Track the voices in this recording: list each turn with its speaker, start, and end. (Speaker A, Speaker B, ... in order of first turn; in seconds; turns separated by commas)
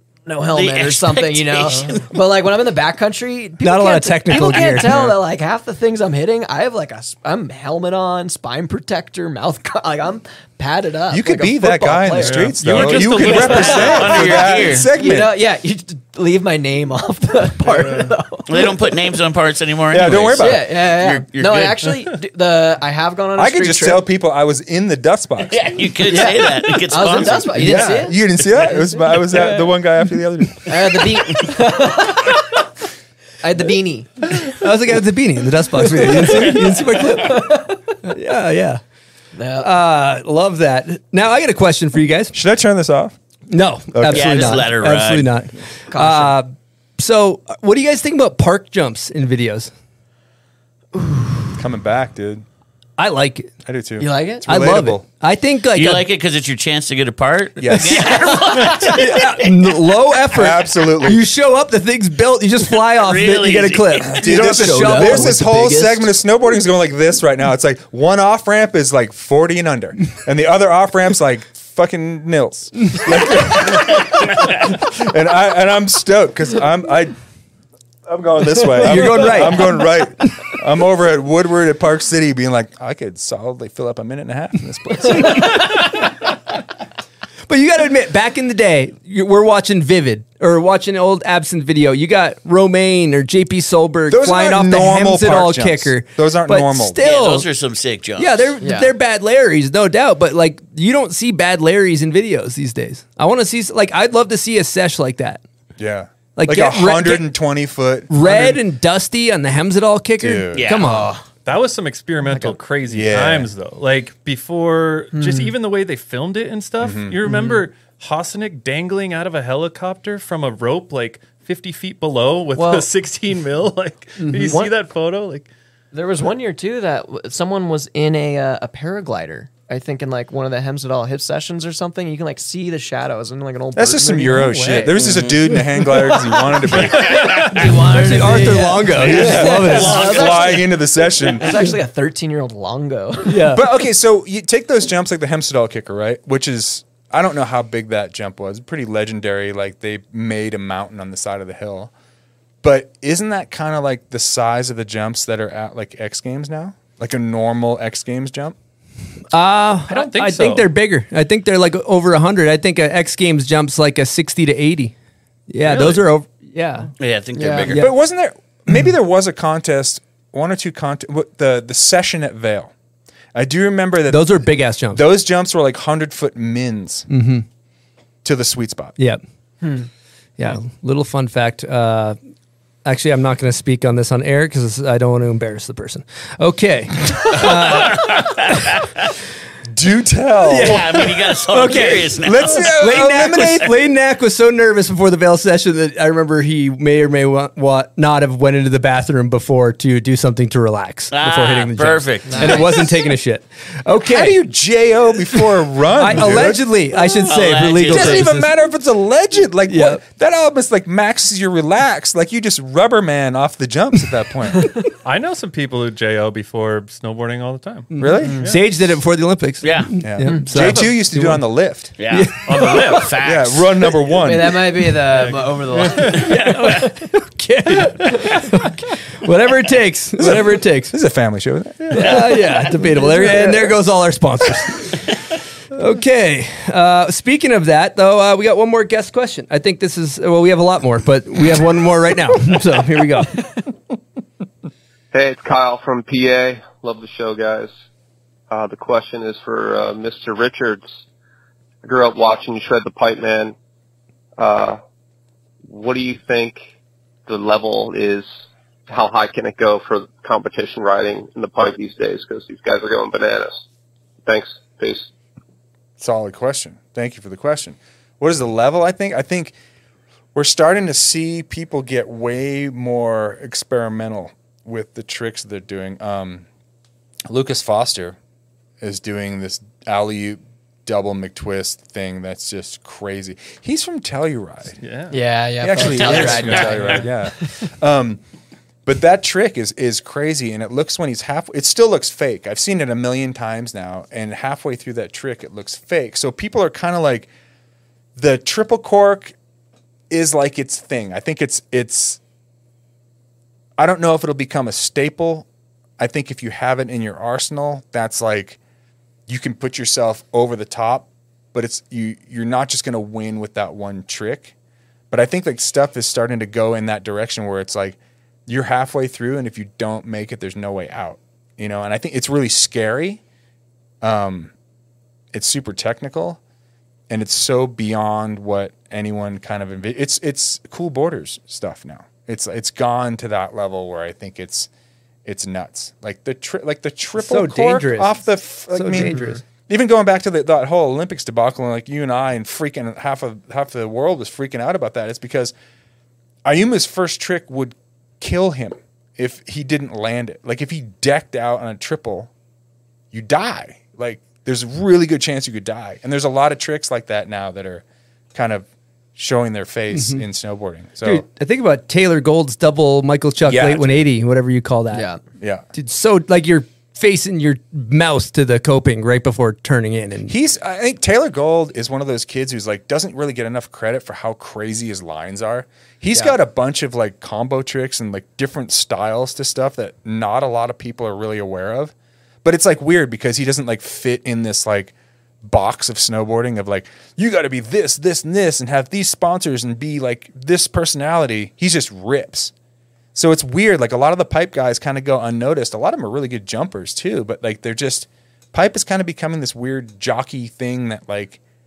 Speaker A: 0.3-18.7, Speaker B: 0.5-2.1, Speaker C: 3.6-5.2, Speaker D: 11.1-15.4, Speaker E: 12.2-14.5, Speaker B: 12.8-14.9, Speaker E: 17.7-18.1, Speaker B: 18.5-21.8, Speaker D: 19.9-20.7, Speaker A: 20.4-24.1, Speaker D: 23.4-25.7, Speaker B: 25.5-27.8, Speaker A: 26.1-29.7, Speaker D: 27.5-31.1, Speaker A: 30.7-32.6, Speaker A: 33.4-34.4, Speaker C: 34.5-37.5, Speaker A: 36.0-37.8, Speaker C: 38.0-38.8, Speaker A: 39.4-39.7, Speaker C: 39.6-42.4, Speaker D: 42.3-43.1, Speaker C: 43.5-49.7, Speaker D: 43.9-44.6, Speaker B: 44.1-45.3, Speaker A: 45.9-46.4, Speaker D: 51.6-52.4, Speaker C: 53.0-53.5, Speaker D: 53.6-55.0, Speaker A: 54.0-54.5, Speaker C: 54.5-56.1, Speaker B: 55.7-59.1, Speaker D: 57.6-58.7, Speaker A: 57.9-58.8, Speaker C: 58.9-66.1, Speaker D: 60.3-61.2, Speaker B: 62.9-64.4, Speaker D: 64.0-77.1, Speaker D: 78.1-85.8, Speaker A: 78.8-79.5, Speaker C: 78.8-79.9, Speaker C: 87.5-97.5, Speaker D: 94.1-97.0, Speaker B: 97.0-98.5, Speaker C: 98.2-105.4, Speaker A: 98.6-98.9, Speaker D: 105.8-108.6, Speaker C: 106.4-107.3, Speaker C: 108.1-111.1, Speaker D: 110.2-110.7, Speaker B: 110.5-111.2, Speaker A: 110.8-111.2, Speaker E: 111.5-125.5, Speaker A: 112.3-112.6, Speaker D: 112.9-113.5, Speaker A: 115.1-115.5, Speaker D: 116.8-117.2, Speaker A: 117.2-117.7, Speaker A: 122.5-122.9, Speaker A: 124.2-124.7, Speaker A: 125.9-143.5, Speaker D: 133.8-137.4, Speaker C: 137.9-140.2, Speaker D: 139.0-141.6, Speaker B: 139.1-140.6, Speaker C: 143.3-143.6, Speaker D: 143.5-151.9, Speaker D: 152.6-158.6, Speaker C: 159.3-164.9, Speaker E: 159.9-160.7, Speaker C: 165.5-166.9, Speaker E: 165.7-166.0, Speaker B: 167.0-167.8, Speaker A: 167.4-167.8, Speaker C: 167.7-167.9, Speaker D: 167.7-172.7, Speaker D: 173.3-177.1, Speaker C: 174.1-175.0, Speaker C: 177.1-177.4, Speaker D: 178.2-179.0, Speaker A: 179.6-179.9, Speaker C: 180.4-182.2, Speaker C: 182.8-188.1, Speaker B: 187.9-188.4, Speaker D: 189.7-190.9, Speaker C: 190.5-204.4, Speaker B: 190.6-192.7, Speaker D: 192.2-193.7, Speaker B: 201.1-202.7, Speaker A: 202.3-202.7, Speaker D: 204.1-206.8, Speaker C: 206.0-208.5, Speaker B: 207.3-208.3, Speaker D: 207.9-214.7, Speaker C: 209.7-210.0, Speaker E: 215.0-218.6, Speaker C: 217.9-221.4, Speaker D: 218.0-218.4, Speaker A: 218.2-218.5, Speaker B: 219.6-220.0, Speaker D: 220.0-221.9, Speaker B: 222.0-223.8, Speaker C: 222.0-222.7, Speaker E: 222.4-223.2, Speaker D: 223.2-224.7, Speaker A: 224.2-226.9, Speaker E: 225.1-226.3, Speaker C: 226.3-230.9, Speaker A: 227.9-228.4, Speaker D: 230.2-232.3, Speaker C: 231.9-235.0, Speaker A: 233.2-233.7, Speaker C: 235.7-243.4, Speaker F: 245.1-247.7, Speaker F: 248.5-250.8, Speaker F: 251.8-253.6, Speaker F: 254.4-254.8, Speaker F: 255.7-256.6, Speaker F: 257.3-258.3, Speaker F: 258.9-263.5, Speaker F: 264.3-265.1, Speaker D: 266.0-269.6, Speaker D: 270.3-276.5, Speaker D: 277.3-278.2, Speaker D: 278.8-284.8, Speaker E: 284.8-285.2, Speaker A: 285.1-287.1, Speaker D: 285.6-288.2, Speaker E: 285.8-287.0, Speaker B: 285.9-286.8, Speaker D: 288.9-297.3, Speaker D: 298.2-299.3, Speaker D: 300.1-302.2, Speaker D: 303.8-305.5, Speaker D: 306.0-308.6, Speaker D: 309.3-314.5, Speaker D: 315.1-323.2, Speaker D: 324.0-324.5, Speaker D: 325.3-326.4, Speaker D: 327.1-334.7, Speaker D: 335.2-345.5, Speaker C: 337.2-338.1, Speaker C: 338.7-339.4, Speaker D: 346.4-352.3, Speaker D: 353.1-357.8, Speaker D: 358.3-361.2, Speaker C: 359.9-360.2, Speaker C: 361.0-365.1, Speaker D: 363.4-364.1, Speaker A: 364.9-365.2, Speaker D: 365.4-365.7, Speaker C: 365.7-370.3, Speaker D: 370.3-381.9, Speaker D: 382.4-392.5, Speaker D: 393.1-401.4